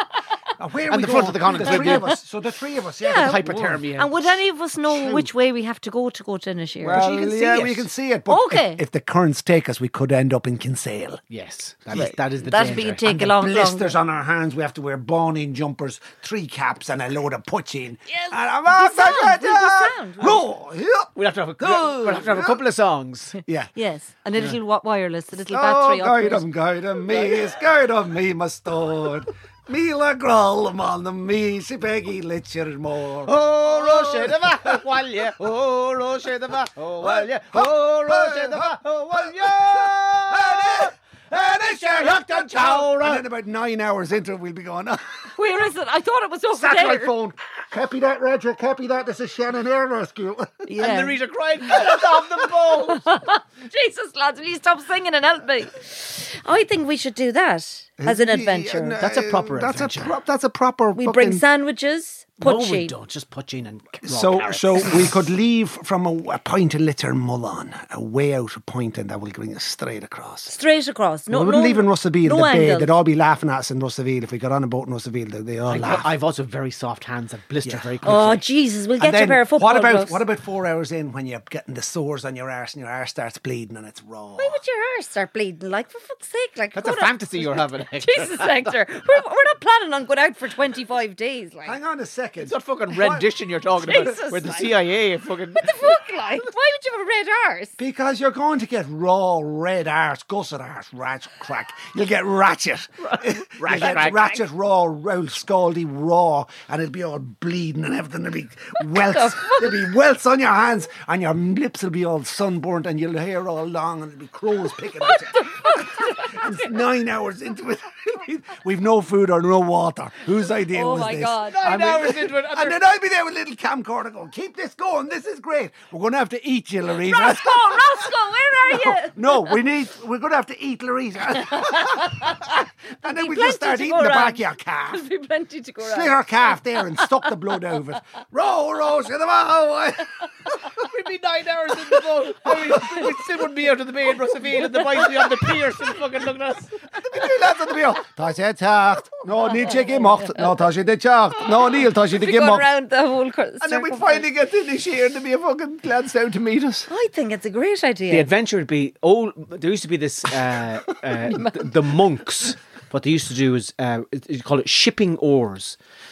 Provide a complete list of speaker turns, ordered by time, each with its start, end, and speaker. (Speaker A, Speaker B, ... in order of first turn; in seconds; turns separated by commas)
Speaker A: 0.6-3.8, Speaker B: 0.9-2.1, Speaker C: 1.6-2.1, Speaker C: 3.0-7.0, Speaker B: 3.2-5.2, Speaker A: 6.8-11.2, Speaker B: 6.9-7.9, Speaker C: 8.3-8.8, Speaker B: 11.3-13.1, Speaker C: 11.9-14.0, Speaker A: 12.9-22.6, Speaker C: 18.1-20.4, Speaker B: 21.2-23.4, Speaker A: 23.4-23.7, Speaker C: 23.8-26.5, Speaker A: 25.5-34.8, Speaker B: 27.1-27.5, Speaker B: 33.3-43.2, Speaker A: 37.0-45.4, Speaker C: 45.4-47.1, Speaker A: 46.5-50.8, Speaker C: 50.7-52.0, Speaker B: 50.8-53.0, Speaker C: 52.8-59.0, Speaker A: 58.0-61.4, Speaker B: 59.0-60.1, Speaker C: 61.0-62.9, Speaker B: 62.4-65.1, Speaker A: 64.0-70.6, Speaker C: 70.5-72.9, Speaker A: 71.3-76.1, Speaker B: 75.7-78.4, Speaker A: 77.6-78.1, Speaker C: 78.0-80.2, Speaker A: 79.0-84.6, Speaker C: 84.4-91.8, Speaker B: 86.8-88.5, Speaker A: 91.6-93.3, Speaker B: 92.4-95.6, Speaker A: 93.8-94.1, Speaker C: 93.8-94.8, Speaker C: 95.6-97.7, Speaker A: 97.8-135.1, Speaker B: 103.1-104.3, Speaker C: 103.7-104.3, Speaker C: 109.1-109.9, Speaker C: 115.1-116.6, Speaker C: 120.7-121.6, Speaker B: 121.5-122.8, Speaker C: 127.0-129.6, Speaker C: 131.4-137.3, Speaker A: 135.8-140.7, Speaker B: 140.8-146.7, Speaker A: 142.4-143.1, Speaker C: 144.5-145.9, Speaker A: 147.1-152.7, Speaker C: 149.7-150.5, Speaker C: 152.1-154.3, Speaker A: 153.6-156.9, Speaker C: 156.9-158.3, Speaker B: 158.1-165.8, Speaker C: 161.3-161.6